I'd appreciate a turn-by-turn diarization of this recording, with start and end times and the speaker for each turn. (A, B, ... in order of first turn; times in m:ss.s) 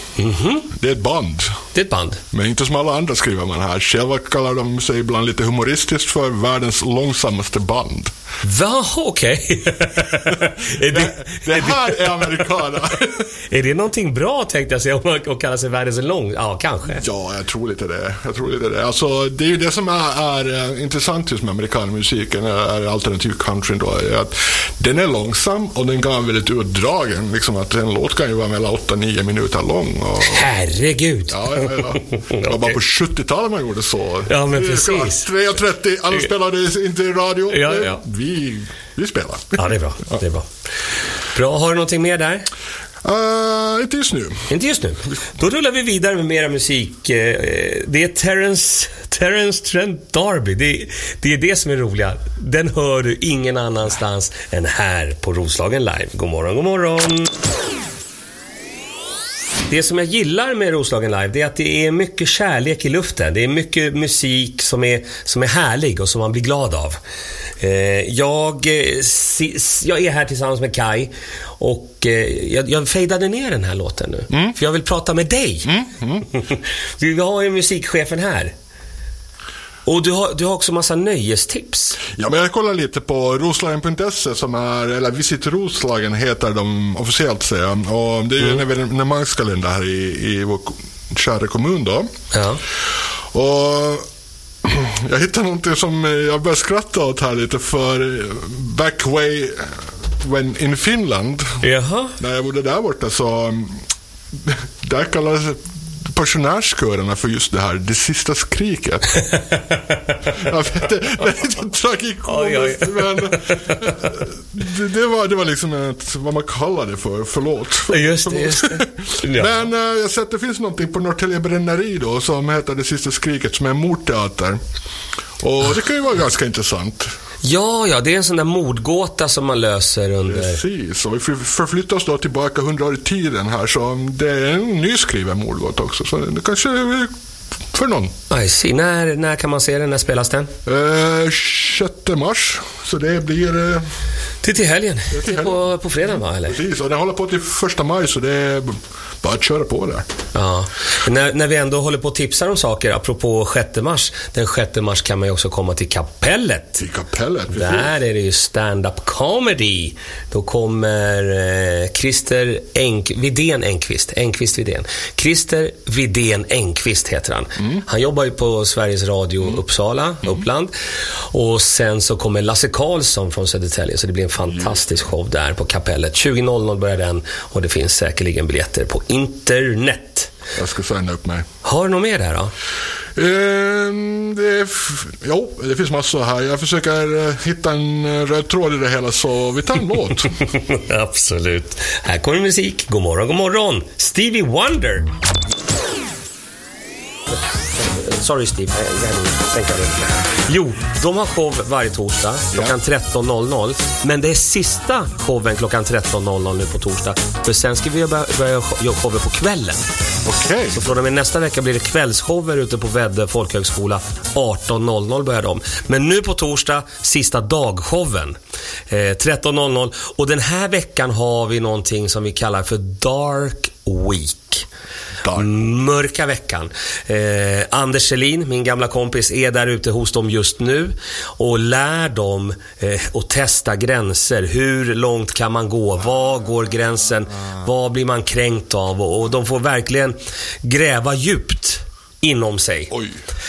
0:00.2-0:00.7 A
0:00.7-0:01.6 B
0:01.7-0:02.2 A
0:02.3-0:08.1 B
0:08.4-0:12.5 A
0:10.9-0:13.2 B
0:13.5-0:17.0 A
0:17.0-0:30.4 B
0:30.2-0:32.8 A
0:31.3-0:39.7 B
0:34.3-0:35.3 A
0:37.5-0:38.0 A
0:39.6-0:40.5 A
0:41.3-0:42.5 A
0:43.0-0:44.5 B
0:44.5-0:57.3 A
0:59.7-1:07.0 A
1:07.6-1:15.7 A
1:14.3-1:14.6 B
1:15.6-1:16.3 B
1:16.3-1:18.5 A
1:19.8-1:22.0 A
1:22.2-1:32.1 B
1:32.3-1:32.6 A
1:33.3-1:34.0 B
1:34.6-1:41.6 B
1:41.6-1:42.2 A
1:42.2-1:43.8 B
1:44.4-1:49.1 B
1:49.2-1:49.8 A
1:50.3-2:04.6 B
1:52.3-1:54.0 A
1:57.9-1:59.6 A
2:05.4-2:07.1 B
2:07.4-2:10.6 A
2:10.3-2:17.1 B
2:17.7-2:18.1 B
2:18.3-2:20.5 A
2:20.6-2:23.9 B
2:24.4-2:26.6 A
2:25.1-2:25.7 B
2:26.4-2:30.1 B
2:30.3-2:36.8 A
2:36.8-2:38.0 B
2:37.5-2:50.7 A
2:51.3-3:00.3 A
3:00.6-3:01.5 B
3:01.6-3:02.5 A
3:03.2-3:10.4 B
3:10.5-3:15.1 A
3:17.3-3:29.9 A
3:30.2-3:30.8 B
3:30.7-3:38.4 A
3:38.9-3:44.7 A
3:45.2-3:45.5 B
3:45.4-4:02.9 A
4:02.9-4:03.2 B